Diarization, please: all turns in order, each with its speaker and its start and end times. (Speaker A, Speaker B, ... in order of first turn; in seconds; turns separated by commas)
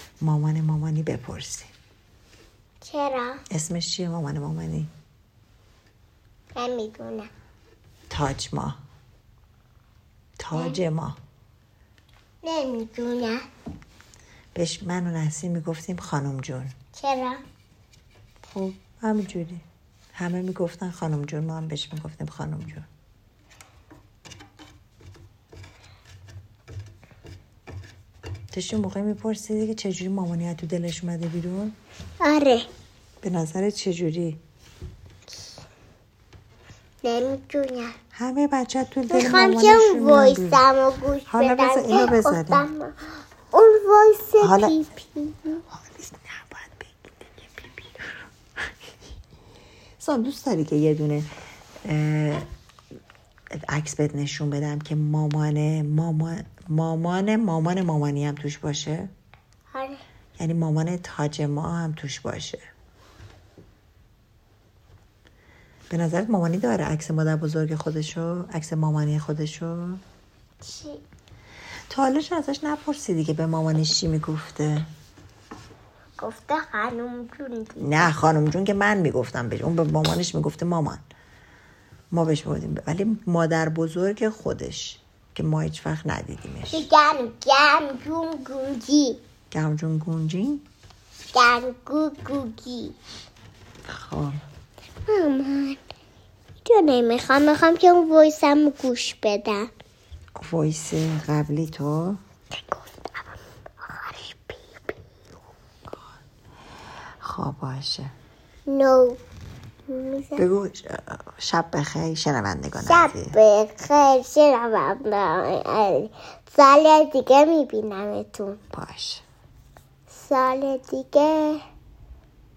Speaker A: 0.2-1.7, Speaker B: 2.8-3.4, Speaker A: 3.5-4.9, Speaker B: 6.5-7.3, Speaker A: 8.1-8.8, Speaker A: 10.4-11.2, Speaker B: 10.5-10.8, Speaker B: 12.4-13.4, Speaker A: 14.5-16.7, Speaker B: 16.9-17.4, Speaker A: 18.4-22.9, Speaker A: 28.5-31.8, Speaker B: 32.2-32.7, Speaker A: 33.2-34.4, Speaker B: 37.0-38.0, Speaker A: 38.1-40.6, Speaker B: 39.1-42.9, Speaker A: 41.3-42.6, Speaker B: 43.5-45.6, Speaker A: 44.4-44.9, Speaker A: 45.7-48.2, Speaker A: 50.0-51.3, Speaker A: 51.8-52.5, Speaker A: 53.5-59.1, Speaker B: 59.7-60.0, Speaker A: 60.4-62.6, Speaker A: 65.9-70.0, Speaker B: 70.6-71.0, Speaker A: 71.9-74.9, Speaker B: 76.2-78.1, Speaker A: 77.8-81.0, Speaker A: 82.1-86.8, Speaker B: 86.7-89.2, Speaker A: 89.5-90.6, Speaker B: 91.3-92.9, Speaker A: 93.9-94.4, Speaker B: 95.0-95.8, Speaker B: 96.6-99.7, Speaker A: 100.3-102.2, Speaker B: 102.6-102.8, Speaker B: 103.8-104.9, Speaker A: 107.2-108.1, Speaker B: 108.7-109.2, Speaker B: 109.9-110.4, Speaker A: 110.4-113.4, Speaker B: 112.8-118.6, Speaker A: 118.7-119.2, Speaker B: 120.1-121.6